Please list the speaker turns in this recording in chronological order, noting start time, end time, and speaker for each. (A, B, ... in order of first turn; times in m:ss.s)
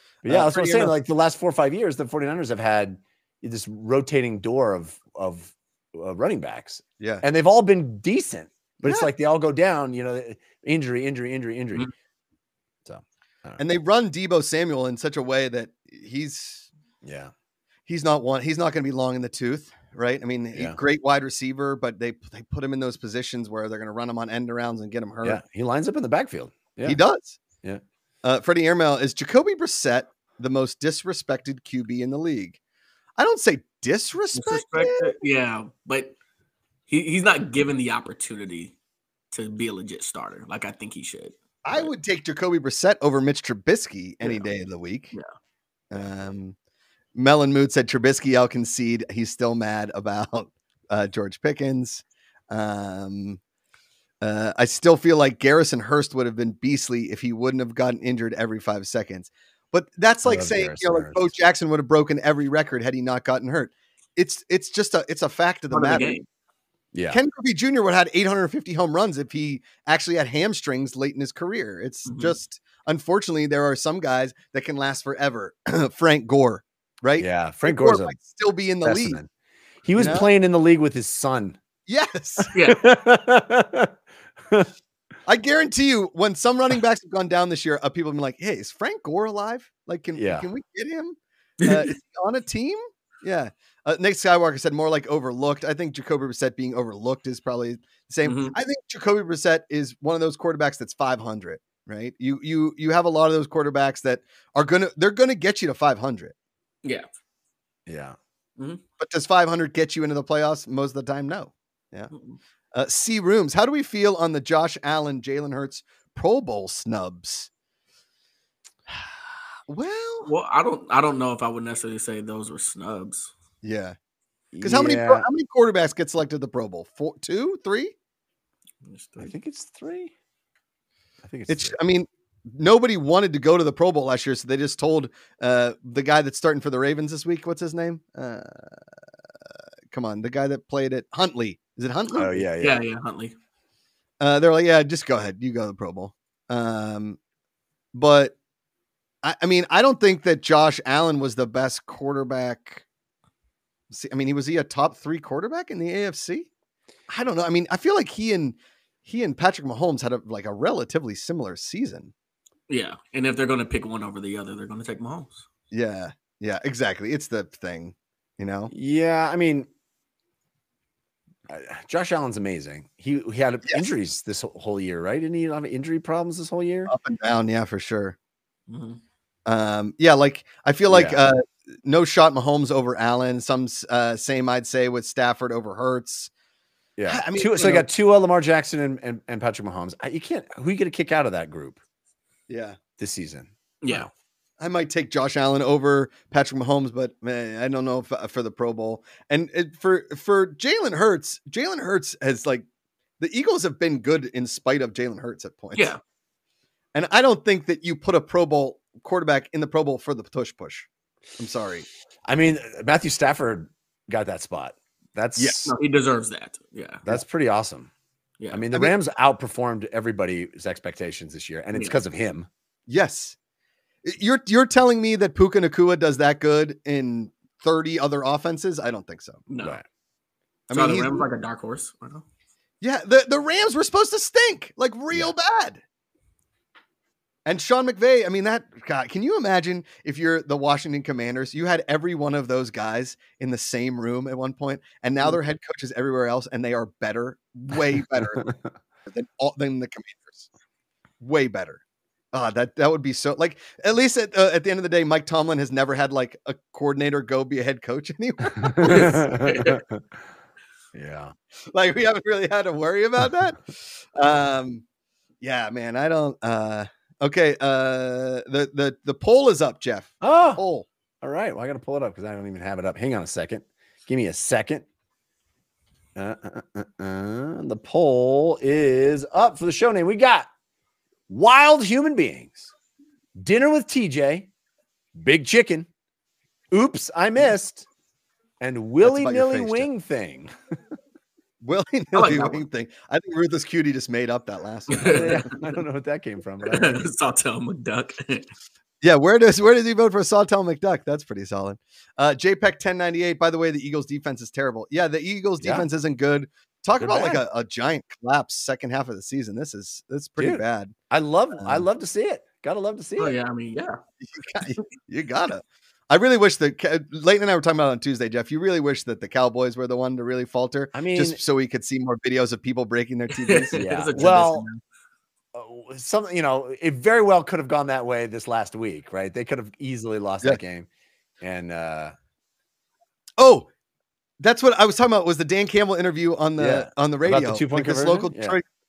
0:00.2-0:11.9 A
0:00.3-0:00.9 B
0:12.8-0:13.6 A
0:13.6-0:16.7 B
0:17.0-0:17.3 A
0:17.9-0:25.4 B
0:20.5-0:20.8 A
0:25.2-0:27.0 A
0:26.8-0:27.4 B
0:28.2-0:32.6 B
0:33.2-0:35.1 B
0:34.4-0:36.1 C
0:36.9-0:38.7 C
0:39.3-0:41.9 C
0:41.6-0:45.1 B
0:45.9-0:46.6 B
0:47.1-0:53.4 B
0:54.2-1:06.2 B
1:00.2-1:01.3 A
1:05.7-1:06.2 C
1:06.9-1:07.2 A
1:07.1-1:19.2 B
1:12.1-1:12.4 C
1:17.2-1:18.2 A
1:18.8-1:19.3 A
1:19.8-1:21.6 A
1:20.0-1:20.3 B
1:21.9-1:22.5 B
1:22.4-1:24.0 A
1:22.5-1:22.8 C
1:25.3-1:46.3 B
1:30.1-1:30.4 A
1:31.6-1:31.9 C
1:38.2-1:38.5 C
1:46.8-1:47.1 C
1:47.9-1:48.2 A
1:49.0-1:52.1 B
1:52.1-1:52.4 C
1:52.7-1:57.5 B
1:59.7-2:00.3 B
2:00.2-2:03.3 C
2:03.6-2:04.0 B
2:04.5-2:05.2 A
2:04.6-2:07.9 B
2:08.8-2:09.3 C
2:09.2-2:10.1 A
2:11.2-2:11.8 A
2:11.5-2:18.8 B
2:19.9-2:22.4 B
2:22.1-2:22.8 A
2:22.6-2:23.3 C
2:24.2-2:27.2 B
2:27.9-2:28.4 B
2:29.2-2:32.8 B
2:33.9-2:36.5 B
2:37.1-2:42.1 B
2:42.7-2:45.4 C
2:45.7-2:48.7 B
2:48.7-2:49.7 A
2:51.5-2:56.9 A
2:56.9-2:58.2 B
2:58.7-2:59.0 C
2:59.4-3:06.3 B
3:00.9-3:01.2 A
3:07.0-3:11.8 A
3:07.1-3:07.8 B
3:12.5-3:12.8 B
3:13.0-3:14.1 A
3:13.8-3:14.1 C
3:14.6-3:22.6 B
3:23.2-3:25.9 B
3:26.9-3:31.9 B
3:32.2-3:35.7 A
3:35.4-3:35.7 B
3:35.6-3:37.0 C
3:37.0-3:37.9 A
3:38.4-3:38.6 C
3:38.5-3:42.5 A
3:42.9-3:43.4 B
3:44.0-3:49.4 B
3:49.5-3:49.8 C
3:50.7-3:51.2 B
3:50.7-3:52.2 C
3:52.8-3:55.8 B
3:57.4-4:08.5 B
4:08.2-4:08.5 A
4:09.1-4:10.5 B
4:11.2-4:11.8 B
4:12.3-4:19.4 B
4:18.6-4:20.2 A
4:18.9-4:19.8 C
4:20.9-4:21.3 A
4:21.7-4:24.8 B
4:25.4-4:30.9 B
4:30.2-4:30.6 A
4:31.2-4:34.8 A
4:36.2-4:40.5 A
4:41.3-4:42.7 A
4:43.4-4:44.5 A
4:45.2-4:45.9 A
4:46.7-4:47.9 A
4:48.6-4:50.8 A
4:49.0-4:49.9 B
4:51.6-4:55.4 B
4:52.1-4:52.6 C
4:54.9-4:55.5 C
4:55.0-4:57.0 A
4:56.6-4:58.5 C
4:59.0-5:10.9 B
5:05.6-5:05.9 A
5:07.0-5:07.4 A
5:10.4-5:13.3 A
5:11.6-5:11.8 B
5:13.2-5:14.0 C
5:14.2-5:24.4 B
5:20.9-5:21.4 A
5:23.3-5:24.8 C
5:23.7-5:24.6 A
5:25.5-5:30.9 A
5:31.4-5:32.1 A
5:33.4-5:33.7 B
5:34.4-5:38.6 B
5:36.6-5:38.6 A